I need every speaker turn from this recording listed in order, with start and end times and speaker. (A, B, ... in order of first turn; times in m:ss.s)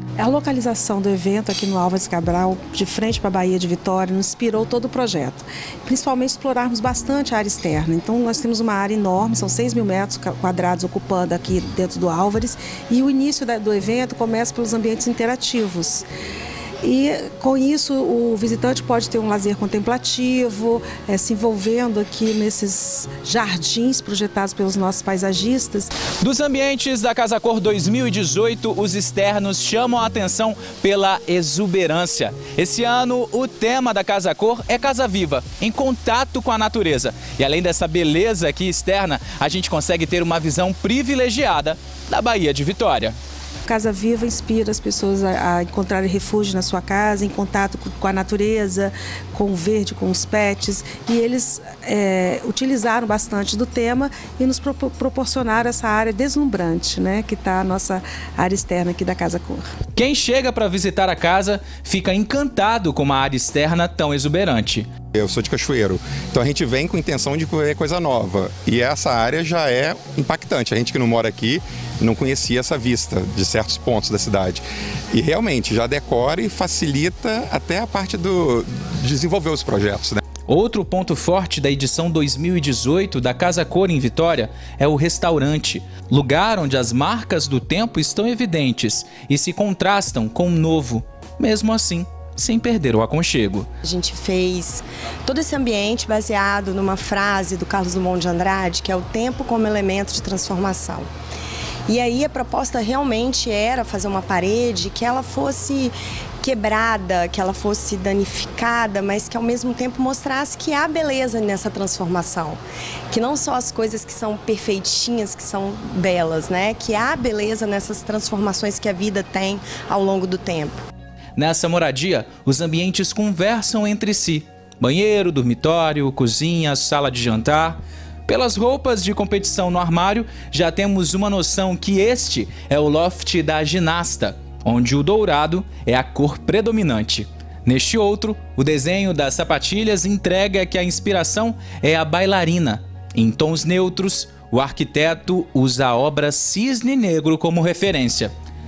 0:00.2-0:16.0 A
0:16.8-0:25.9 A
0:26.2-0:43.1 B
0:43.6-0:59.7 A
0:59.9-1:04.9 B
1:05.1-1:20.2 C
1:20.5-1:33.6 B
1:33.8-1:41.1 D
1:41.9-1:52.6 D
1:53.1-2:00.8 D
2:01.4-2:28.3 B